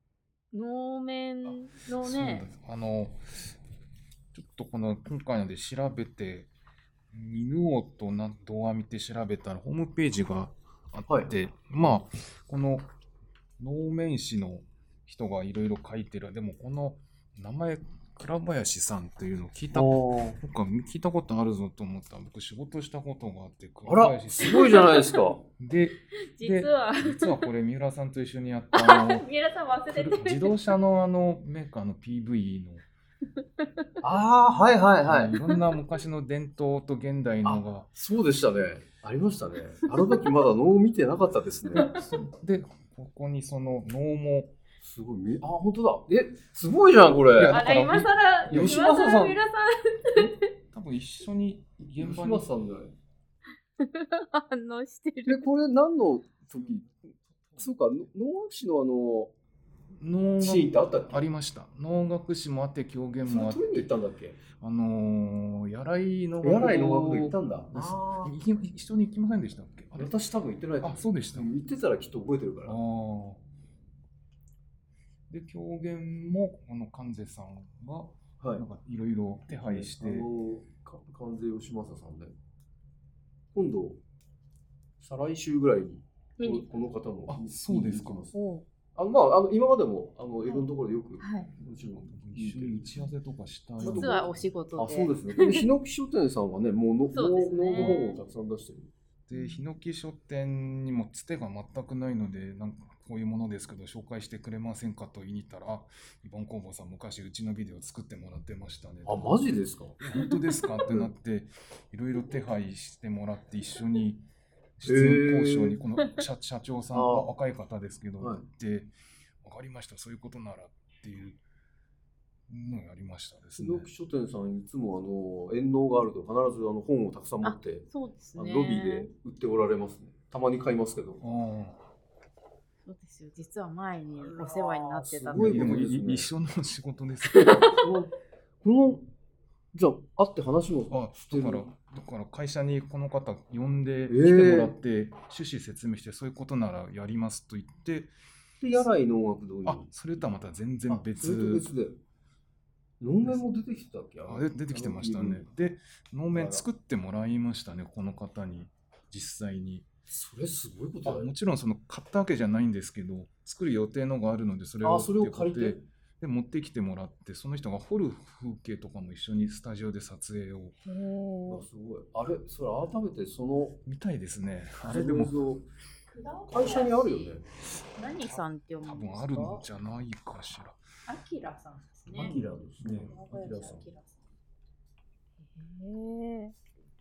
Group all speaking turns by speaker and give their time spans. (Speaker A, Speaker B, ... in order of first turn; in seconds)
Speaker A: 0.5-2.5, 24.8-25.1, 26.3-27.5, 28.7-30.6, 33.6-33.9, 41.7-42.1, 47.5-50.4, 53.8-55.5, 86.4-86.9, 88.3-88.7, 90.4-91.5, 93.8-95.7, 97.1-98.2, 99.3-99.7, 127.4-129.1, 132.8-135.9, 137.3-137.8, 170.8-171.7, 176.1-179.6, 181.1-182.4, 183.1-184.2, 185.4-186.5
Speaker B: 1.4-3.5, 4.3-6.5, 7.1-12.9, 13.6-29.3, 29.9-32.9, 35.0-37.9, 41.9-44.6, 47.3-48.8, 50.2-52.5, 60.0-63.9, 64.5-70.1, 70.8-71.5, 72.6-73.4, 75.3-80.3, 87.3-88.3, 92.0-94.4, 97.7-98.0, 99.3-114.2, 114.8-118.9, 119.4-121.4, 122.5-123.9, 131.2-131.8, 135.3-137.7, 140.9-148.1, 149.6-151.7, 154.2-159.9, 161.0-170.8, 173.8-175.4, 178.8-180.8, 182.1-183.1
Speaker C: 11.1-11.3, 19.7-20.4, 23.8-25.4, 34.0-35.3, 37.4-41.9, 44.8-47.6, 48.5-49.4, 52.0-53.0, 55.2-57.0, 57.6-59.3, 60.4-61.3, 63.2-64.4, 66.4-68.3, 70.0-72.8, 79.5-82.3, 83.5-84.0, 85.0-88.4, 88.9-92.9, 93.8-98.9, 109.0-110.0, 114.8-115.8, 116.9-117.3, 118.2-118.4, 123.6-131.2, 134.2-136.3, 137.6-139.1, 139.7-141.7, 144.1-144.8, 148.6-149.9, 150.9-152.0, 153.0-155.5, 156.3-156.7, 160.1-161.3, 164.8-165.8, 171.5-173.8, 174.8-175.7, 176.5-177.5, 182.1-183.9